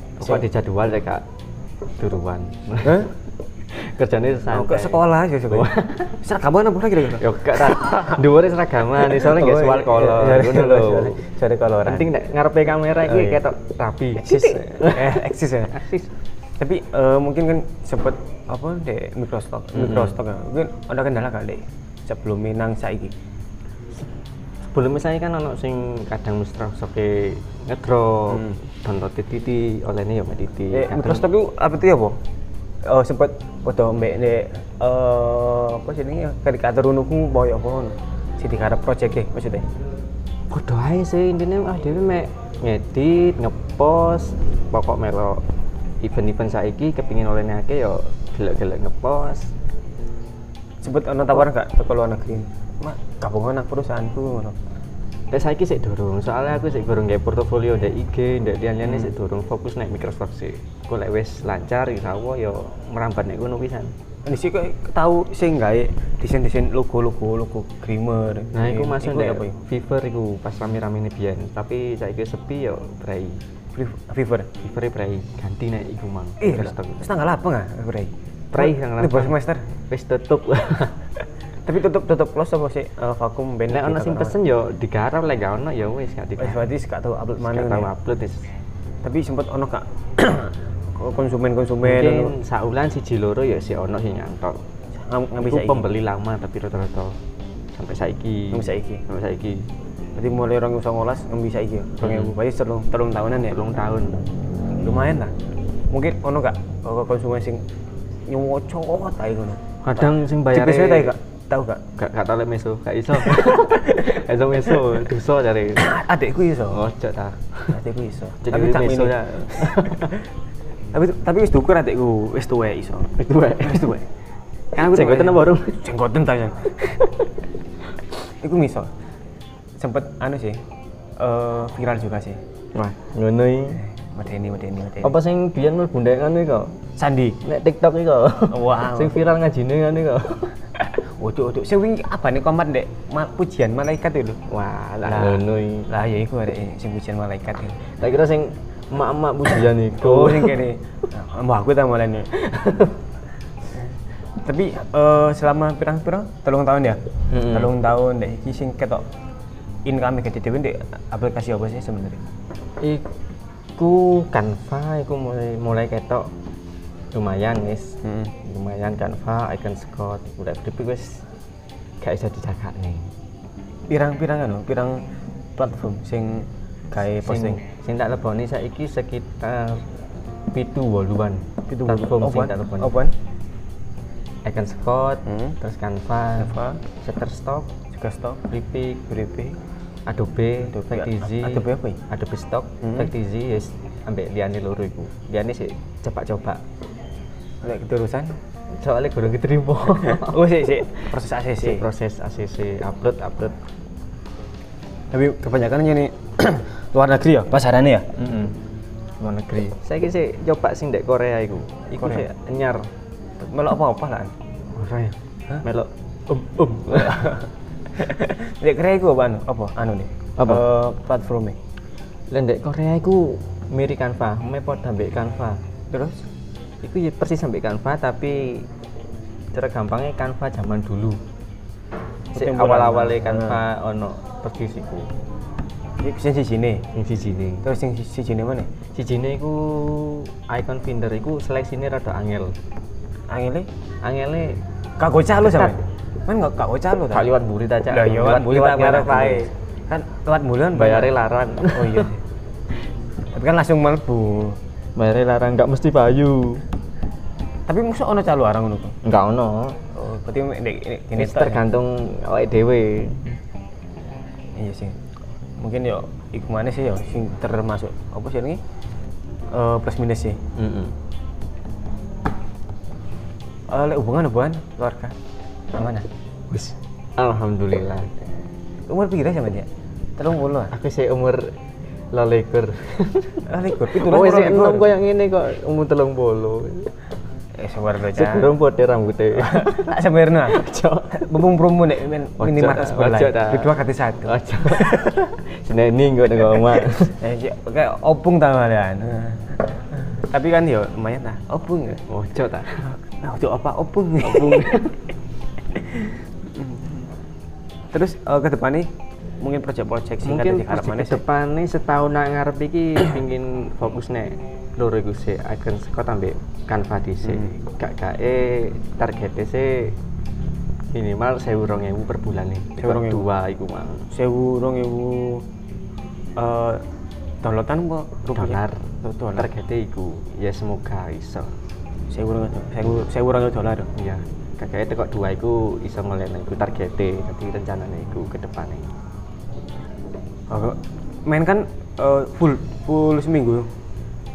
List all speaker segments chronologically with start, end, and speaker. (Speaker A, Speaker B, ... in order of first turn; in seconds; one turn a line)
Speaker A: 0.2-1.2
Speaker A: 2.0-3.1
Speaker B: 2.8-3.1
Speaker A: 3.7-6.2
Speaker B: 4.5-8.2
Speaker A: 7.2-11.2
Speaker B: 9.1-12.1
Speaker A: 11.8-16.1
Speaker B: 13.0-13.4
Speaker B: 14.2-15.8
Speaker B: 16.6-23.1
Speaker A: 19.7-20.1
Speaker A: 24.6-31.2
Speaker B: 30.7-32.2
Speaker B: 32.8-39.6
Speaker A: 40.5-45.4
Speaker A: 46.0-49.5
Speaker B: 50.8-54.6
Speaker A: 55.3-63.9
Speaker B: 58.8-59.1
Speaker B: 64.2-69.6
Speaker A: 68.5-73.4
Speaker B: 73.7-74.5
Speaker A: 74.6-77.1
Speaker B: 76.4-79.6
Speaker A: 78.5-79.4
Speaker A: 79.9-81.0
Speaker B: 81.6-84.3
Speaker A: 83.7-86.6
Speaker B: 86.4-87.9
Speaker A: 87.4-88.5
Speaker B: 89.0-92.3
Speaker A: 91.8-94.6
Speaker B: 95.0-95.8
Speaker A: 95.4-97.2
Speaker A: 97.7-99.7
Speaker B: 98.5-99.0
Speaker B: 100.1-103.6
Speaker A: 102.0-102.3
Speaker A: 103.4-104.3
Speaker B: 104.8-105.3
Speaker B: 105.9-107.6
Speaker B: 108.3-111.8
Speaker A: 109.8-111.1
Speaker A: 111.9-115.9
Speaker B: 113.2-114.2
Speaker B: 115.8-116.8
Speaker A: 116.7-117.8
Speaker B: 117.7-120.0
Speaker A: 118.4-120.2
Speaker B: 120.9-124.0
Speaker A: 123.2-124.0
Speaker A: 124.7-125.8
Speaker B: 124.7-127.0
Speaker B: 128.3-128.9
Speaker B: 129.8-130.6
Speaker B: 131.2-132.4
Speaker A: 132.7-133.8
Speaker B: 133.8-135.1
Speaker A: 135.0-136.8
Speaker B: 136.9-137.4
Speaker A: 137.4-140.5
Speaker B: 138.5-139.2
Speaker B: 141.0-144.4
Speaker A: 144.5-145.9
Speaker B: 145.0-147.8
Speaker A: 148.0-150.6
Speaker B: 150.0-152.3
Speaker A: 152.3-152.9
Speaker B: 154.4-159.0
Speaker A: 157.3-157.7
Speaker B: 159.8-162.2
Speaker A: 162.8-163.1
Speaker A: 163.8-166.3
Speaker A: 167.1-171.2
Speaker B: 168.0-168.3
Speaker A: 172.0-173.1
Speaker B: 173.9-175.0
Speaker B: 175.6-177.6
Speaker A: 177.2-179.8
Speaker A: 180.5-182.9
Speaker B: 181.7-183.1
Speaker A: 184.4-187.7
Speaker B: 185.2-185.6
Speaker B: 186.4-186.8
Speaker B: 187.9-188.4
Speaker A: 188.5-189.3
Speaker B: 189.1-189.5
Speaker A: 190.1-196.6
Speaker B: 190.7-192.0
Speaker B: 192.8-193.1
Speaker B: 197.6-198.3
Speaker A: 198.8-201.1
Speaker B: 200.0-201.9
Speaker A: 201.6-203.6
Speaker B: 205.1-208.1
Speaker A: 208.2-208.6
Speaker A: 209.2-212.9
Speaker B: 212.0-212.3
Speaker B: 213.4-214.3
Speaker A: 214.7-217.3
Speaker B: 216.8-221.6
Speaker A: 220.4-220.7
Speaker A: 222.3-225.6
Speaker B: 225.9-226.2
Speaker A: 226.8-228.7
Speaker A: 229.5-231.2
Speaker B: 232.3-233.6
Speaker A: 232.3-235.1
Speaker B: 236.0-236.8
Speaker A: 236.9-237.7
Speaker B: 237.6-238.7
Speaker A: 238.9-242.6
Speaker B: 243.3-243.7
Speaker A: 244.0-244.6
Speaker B: 245.0-247.3
Speaker A: 245.4-245.8
Speaker A: 247.1-249.5
Speaker B: 247.9-251.1
Speaker A: 250.7-252.1
Speaker B: 251.7-252.2
Speaker B: 253.3-254.6
Speaker A: 254.9-256.6
Speaker B: 257.7-259.0
Speaker A: 259.0-259.8
Speaker B: 259.9-261.6
Speaker A: 261.2-263.4
Speaker B: 264.6-264.9
Speaker B: 265.6-268.6
Speaker B: 269.5-270.4
Speaker A: 270.6-270.9
Speaker B: 273.7-275.2
Speaker B: 275.7-276.1
Speaker A: 276.5-278.1
Speaker B: 278.9-280.7
Speaker A: 280.7-281.5
Speaker A: 282.1-286.9
Speaker B: 283.5-284.9
Speaker B: 287.6-288.5
Speaker A: 288.1-289.9
Speaker B: 289.4-290.6
Speaker A: 290.5-291.2
Speaker B: 291.1-295.1
Speaker A: 292.4-297.2
Speaker B: 297.2-302.0
Speaker A: 302.1-302.9
Speaker B: 303.1-304.9
Speaker A: 304.2-304.9
Speaker B: 305.7-307.1
Speaker B: 307.9-311.2
Speaker A: 310.2-319.9
Speaker B: 317.2-317.5
Speaker A: 320.9-324.1
Speaker B: 322.8-323.2
Speaker B: 324.1-325.4
Speaker B: 326.4-326.8
Speaker B: 327.4-329.5
Speaker A: 328.3-331.5
Speaker B: 332.1-333.9
Speaker A: 333.9-338.9
Speaker B: 340.5-343.7